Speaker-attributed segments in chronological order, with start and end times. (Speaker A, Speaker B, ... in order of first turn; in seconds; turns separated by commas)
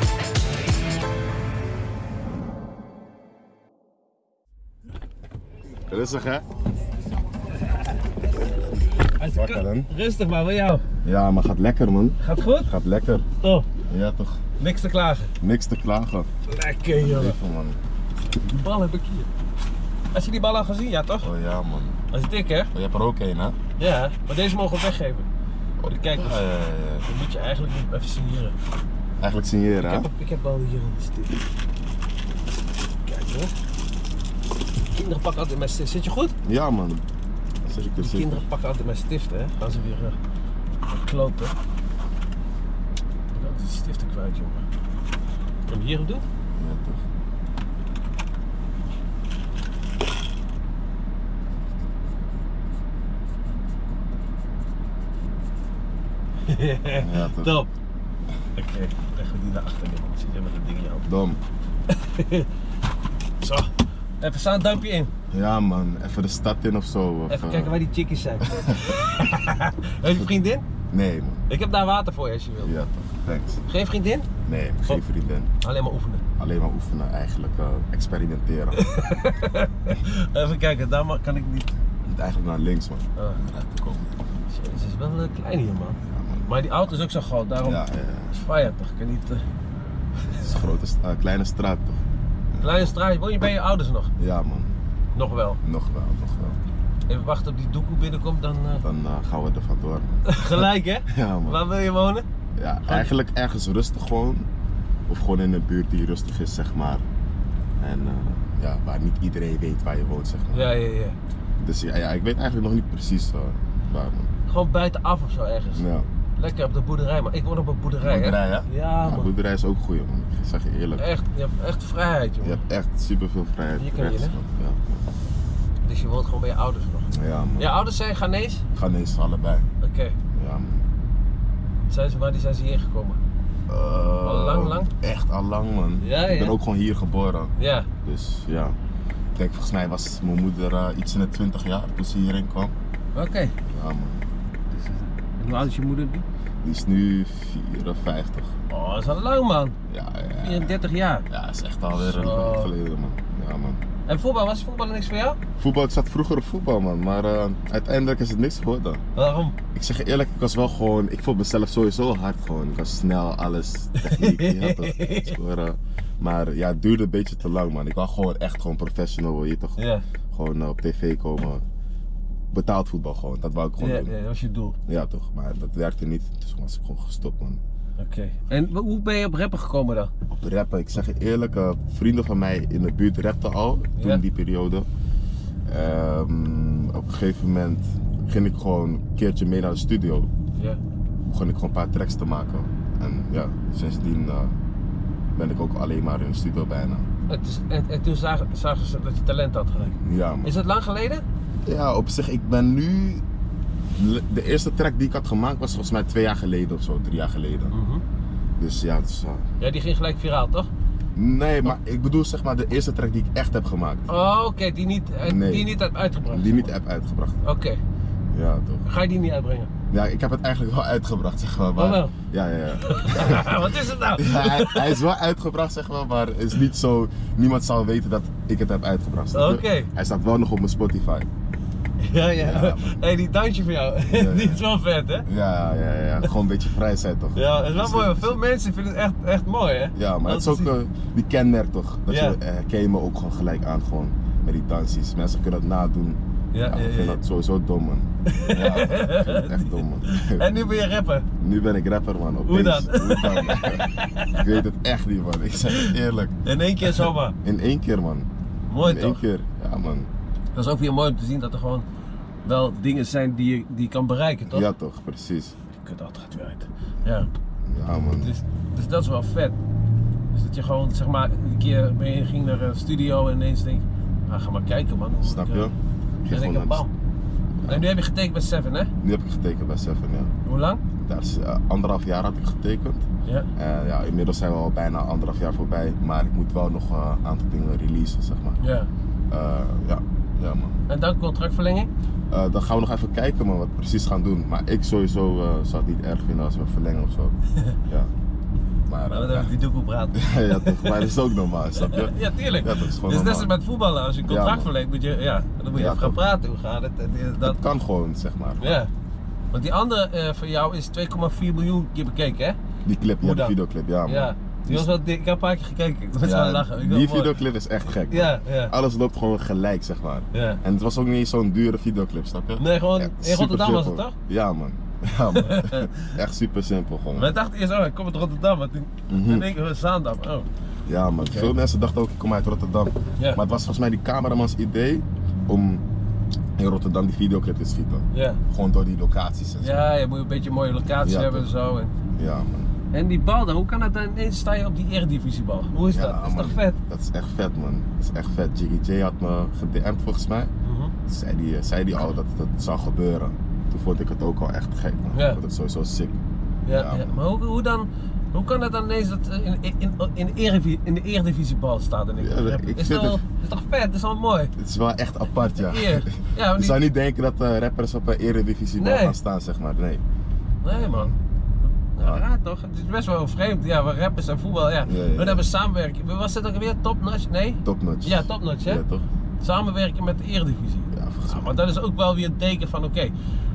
Speaker A: 5.9-6.5, Speaker B: 9.2-10.8, Speaker A: 9.3-9.9, Speaker A: 11.0-13.3, Speaker B: 12.2-12.7, Speaker B: 13.4-13.7, Speaker A: 13.8-14.4, Speaker B: 14.6-15.3, Speaker A: 15.4-16.3, Speaker B: 16.5-17.4, Speaker A: 16.9-17.8, Speaker B: 18.3-19.3, Speaker B: 20.1-21.3, Speaker A: 21.2-22.0, Speaker B: 22.1-22.7, Speaker A: 22.7-23.6, Speaker B: 23.8-25.3, Speaker A: 25.8-27.1, Speaker B: 25.9-26.4, Speaker B: 27.1-28.6, Speaker A: 29.2-30.1, Speaker B: 29.8-31.4, Speaker B: 33.0-33.5, Speaker B: 34.9-36.4, Speaker A: 36.4-37.0, Speaker A: 37.6-38.4, Speaker B: 38.0-40.2, Speaker B: 40.9-41.5, Speaker B: 43.3-44.7, Speaker B: 45.7-46.2, Speaker A: 46.5-47.0, Speaker B: 56.5-57.7, Speaker A: 56.9-57.5, Speaker B: 58.6-61.1, Speaker A: 61.0-61.4, Speaker B: 61.9-62.5, Speaker B: 63.4-65.1, Speaker A: 65.3-67.8, Speaker B: 67.3-70.6, Speaker A: 68.4-69.3, Speaker A: 70.0-70.3, Speaker A: 70.9-71.5, Speaker B: 71.5-72.7, Speaker A: 72.6-73.6, Speaker B: 73.7-74.3, Speaker A: 74.5-75.5, Speaker B: 75.6-76.2, Speaker A: 76.4-78.9, Speaker B: 78.7-81.8, Speaker A: 82.1-84.1, Speaker B: 84.5-89.5, Speaker A: 86.0-86.5, Speaker A: 87.6-88.4, Speaker A: 90.4-93.0, Speaker B: 92.6-94.1, Speaker A: 94.2-94.8, Speaker B: 95.2-95.6, Speaker A: 95.6-96.6, Speaker B: 97.1-98.8, Speaker A: 98.8-101.6, Speaker B: 100.2-102.2, Speaker A: 102.6-104.5, Speaker A: 105.1-107.0, Speaker A: 107.8-110.7, Speaker B: 110.5-111.2, Speaker A: 111.6-114.3, Speaker B: 114.5-115.9, Speaker A: 115.8-116.1, Speaker B: 116.4-119.3, Speaker A: 118.0-121.1, Speaker B: 121.0-122.6, Speaker A: 122.4-125.1, Speaker B: 123.8-124.4, Speaker B: 125.8-128.6, Speaker A: 127.1-127.8, Speaker A: 128.8-129.7, Speaker B: 129.8-130.2, Speaker A: 130.3-130.9, Speaker B: 131.9-133.2, Speaker A: 133.7-138.8, Speaker B: 134.2-134.9, Speaker B: 136.0-136.6, Speaker B: 137.6-137.9, Speaker A: 139.3-142.8, Speaker B: 143.2-143.6, Speaker A: 143.7-144.2, Speaker B: 144.7-146.2, Speaker A: 146.6-148.6, Speaker B: 148.7-149.8, Speaker A: 149.9-150.8, Speaker B: 150.4-151.3, Speaker A: 151.3-153.8, Speaker B: 151.9-152.7, Speaker B: 154.1-155.4, Speaker A: 155.6-159.0, Speaker B: 159.2-159.6, Speaker A: 159.7-171.6, Speaker B: 164.0-165.4, Speaker B: 169.8-170.1, Speaker A: 172.5-174.1, Speaker B: 173.8-174.8, Speaker A: 174.9-177.6, Speaker B: 178.0-180.1, Speaker A: 180.3-184.9, Speaker A: 185.7-190.3, Speaker B: 190.6-190.8, Speaker A: 191.2-194.6, Speaker A: 195.3-197.1, Speaker B: 197.3-201.2, Speaker A: 200.0-200.5, Speaker A: 201.7-203.2, Speaker A: 203.9-207.7, Speaker B: 207.7-208.0, Speaker A: 208.6-209.5, Speaker B: 209.6-210.7, Speaker A: 211.2-214.1, Speaker B: 214.1-216.7, Speaker A: 215.2-215.7, Speaker A: 216.3-217.4, Speaker B: 217.4-217.8, Speaker A: 218.3-218.9, Speaker B: 218.9-219.7, Speaker A: 219.9-231.3, Speaker B: 221.8-222.1, Speaker B: 222.8-225.0, Speaker B: 229.3-229.9, Speaker B: 232.0-235.3, Speaker A: 232.3-233.0, Speaker A: 234.1-234.7, Speaker A: 235.3-238.4, Speaker B: 237.3-240.7, Speaker A: 239.9-250.5, Speaker B: 242.1-242.4, Speaker B: 246.5-247.2, Speaker B: 248.3-251.3, Speaker A: 251.4-260.1, Speaker B: 252.5-254.5, Speaker B: 256.4-257.4, Speaker B: 258.7-259.2, Speaker B: 260.5-261.9, Speaker B: 262.4-264.7, Speaker A: 264.5-265.6, Speaker B: 265.7-267.3, Speaker A: 267.6-268.3, Speaker B: 268.2-269.6, Speaker B: 270.3-275.7, Speaker A: 275.2-276.9, Speaker B: 276.3-276.9, Speaker B: 277.7-278.9, Speaker A: 279.0-280.3, Speaker B: 280.4-280.8, Speaker A: 281.0-288.6, Speaker B: 288.6-288.9, Speaker A: 289.3-290.8, Speaker B: 290.9-291.9, Speaker A: 292.3-297.4, Speaker A: 297.9-298.1, Speaker A: 298.9-299.5, Speaker B: 299.1-301.1, Speaker A: 300.1-303.5, Speaker B: 301.8-307.6, Speaker A: 304.3-304.7, Speaker A: 305.7-306.2, Speaker A: 307.4-308.8, Speaker B: 308.6-308.9, Speaker B: 309.5-312.6, Speaker A: 312.8-314.9, Speaker B: 313.2-317.4, Speaker A: 316.2-327.4, Speaker B: 318.1-318.7, Speaker B: 320.3-320.6, Speaker B: 322.6-324.2, Speaker B: 325.3-326.2, Speaker B: 327.2-330.5, Speaker A: 329.1-329.5, Speaker A: 330.9-335.8, Speaker B: 331.3-331.5, Speaker A: 336.6-339.9, Speaker B: 338.1-338.4, Speaker B: 339.6-341.9, Speaker A: 341.0-341.5, Speaker A: 342.2-342.7, Speaker B: 342.9-346.8, Speaker A: 345.9-350.5, Speaker B: 350.6-350.9, Speaker A: 351.1-357.1, Speaker B: 355.1-355.4, Speaker B: 356.7-364.5, Speaker A: 362.2-363.2, Speaker A: 364.6-370.0, Speaker B: 365.6-366.8, Speaker B: 368.8-369.2, Speaker B: 370.6-371.1, Speaker A: 370.7-371.2, Speaker B: 371.9-378.8, Speaker A: 372.0-372.2, Speaker A: 374.8-375.4, Speaker A: 377.6-379.1, Speaker B: 379.4-383.1, Speaker A: 380.9-381.6